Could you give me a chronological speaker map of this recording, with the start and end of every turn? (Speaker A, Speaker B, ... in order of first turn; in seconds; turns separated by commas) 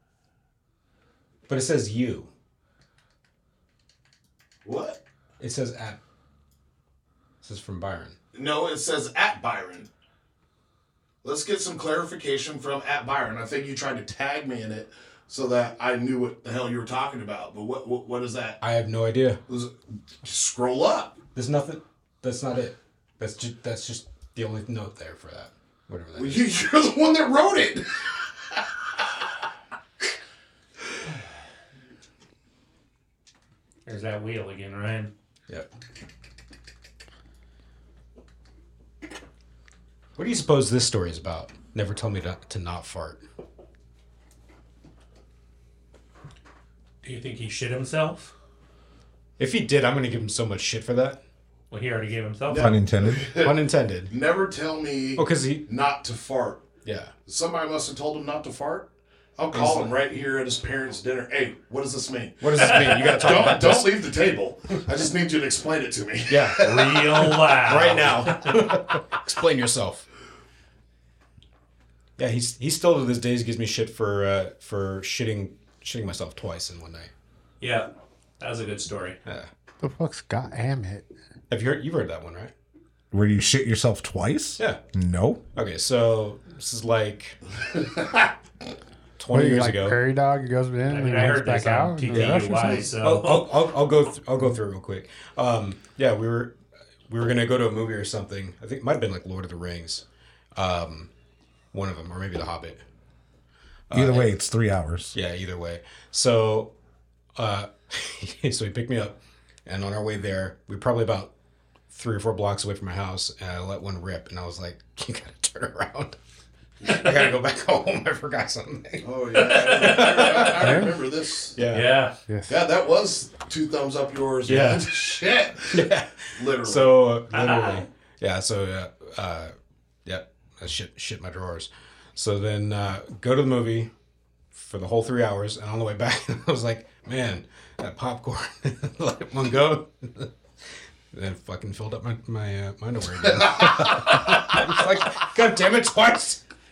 Speaker A: 1.5-2.3, Speaker B: 4.7-5.0, Speaker A: 5.4-6.0, Speaker A: 7.4-8.2, Speaker B: 8.3-9.9, Speaker B: 11.2-18.6, Speaker A: 18.6-19.4, Speaker B: 19.5-21.2, Speaker A: 21.4-26.5, Speaker B: 26.2-27.9, Speaker C: 33.9-35.1, Speaker A: 40.2-43.2, Speaker C: 47.0-48.3, Speaker A: 49.4-51.2, Speaker C: 51.7-52.8, Speaker B: 52.5-53.5, Speaker D: 52.5-53.3, Speaker A: 53.4-54.1, Speaker B: 54.1-56.6, Speaker A: 55.2-55.6, Speaker A: 56.8-57.1, Speaker B: 57.3-67.4, Speaker A: 59.5-59.9, Speaker A: 62.4-64.3, Speaker C: 62.7-63.6, Speaker A: 66.3-66.7, Speaker C: 66.6-68.7, Speaker A: 67.6-70.1, Speaker A: 72.2-77.1, Speaker C: 77.6-77.9, Speaker C: 78.4-79.2, Speaker E: 79.8-81.1, Speaker A: 81.5-82.5, Speaker D: 83.1-85.4, Speaker A: 85.5-87.4, Speaker B: 87.8-88.3, Speaker A: 89.2-90.0, Speaker E: 89.3-92.9, Speaker C: 90.9-93.5, Speaker A: 92.1-92.5, Speaker A: 93.0-96.5, Speaker A: 97.1-100.0, Speaker A: 100.5-101.1, Speaker A: 101.7-102.8, Speaker A: 103.9-104.3, Speaker D: 103.9-105.2, Speaker A: 105.1-106.7, Speaker A: 107.4-111.3, Speaker A: 111.9-116.2, Speaker A: 116.8-119.1, Speaker B: 119.0-121.6, Speaker C: 119.3-120.5, Speaker A: 119.7-120.8, Speaker E: 120.6-120.9, Speaker A: 121.6-122.0, Speaker C: 121.7-122.2, Speaker E: 122.3-122.5, Speaker B: 122.5-127.0, Speaker A: 124.5-125.0, Speaker A: 125.7-129.5, Speaker C: 127.3-127.9, Speaker A: 130.1-133.9, Speaker A: 134.5-140.3, Speaker A: 141.1-146.4